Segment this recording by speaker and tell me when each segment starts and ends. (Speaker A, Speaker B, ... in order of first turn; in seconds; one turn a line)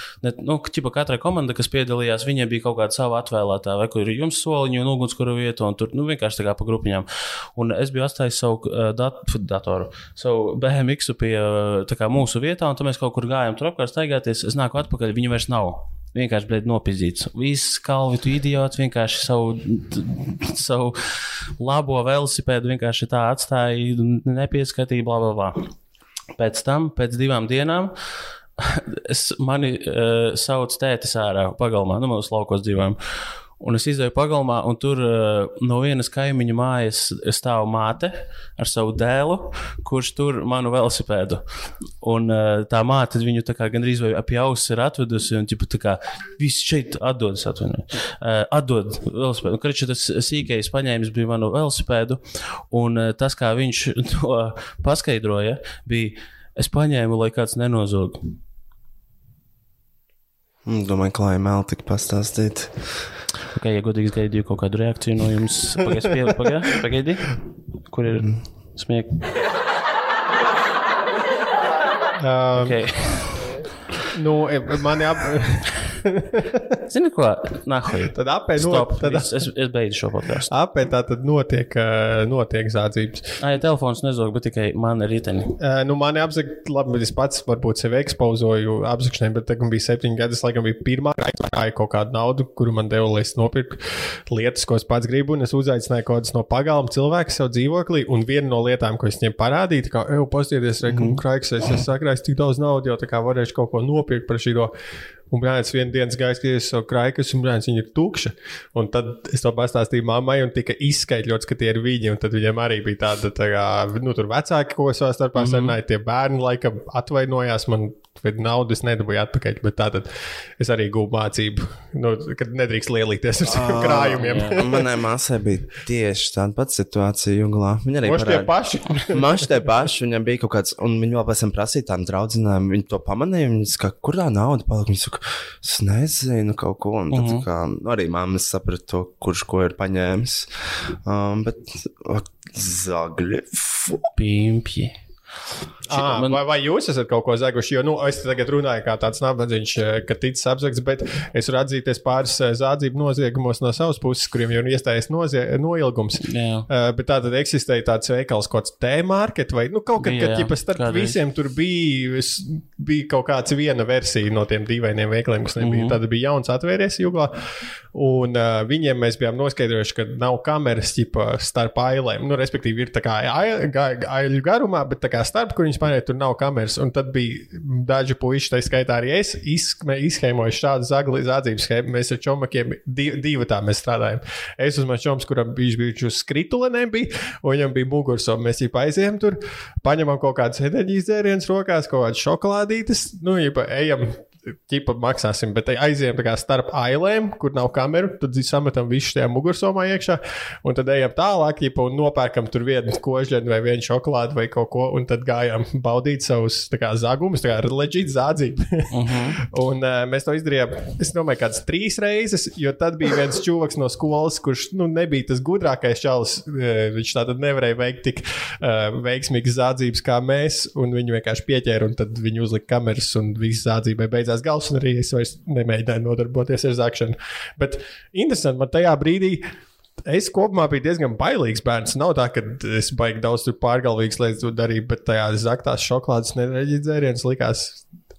Speaker A: 0.2-25.7
Speaker A: 26.3-41.4
Speaker A: 42.0-58.4
Speaker B: 60.6-63.1
Speaker A: 63.5-69.5
Speaker C: 72.2-73.0
Speaker A: 72.6-73.5
Speaker C: 74.0-76.8
Speaker A: 76.9-80.5
Speaker C: 78.1-79.4
Speaker C: 80.5-83.4
Speaker A: 83.4-85.6
Speaker C: 85.6-104.7
Speaker A: 100.8-101.2
Speaker C: 105.3-124.9
Speaker A: 115.3-115.8
Speaker B: 123.4-128.5
Speaker A: 124.1-124.7
Speaker C: 128.0-129.5
Speaker B: 129.1-144.1
Speaker A: 137.1-137.4
Speaker A: 144.2-145.0
Speaker A: 145.9-146.4
Speaker C: 145.9-167.3
Speaker A: 156.2-156.7
Speaker A: 160.0-161.2
Speaker A: 165.6-166.0
Speaker C: 167.9-229.4
Speaker A: 208.9-209.4
Speaker C: 230.1-237.8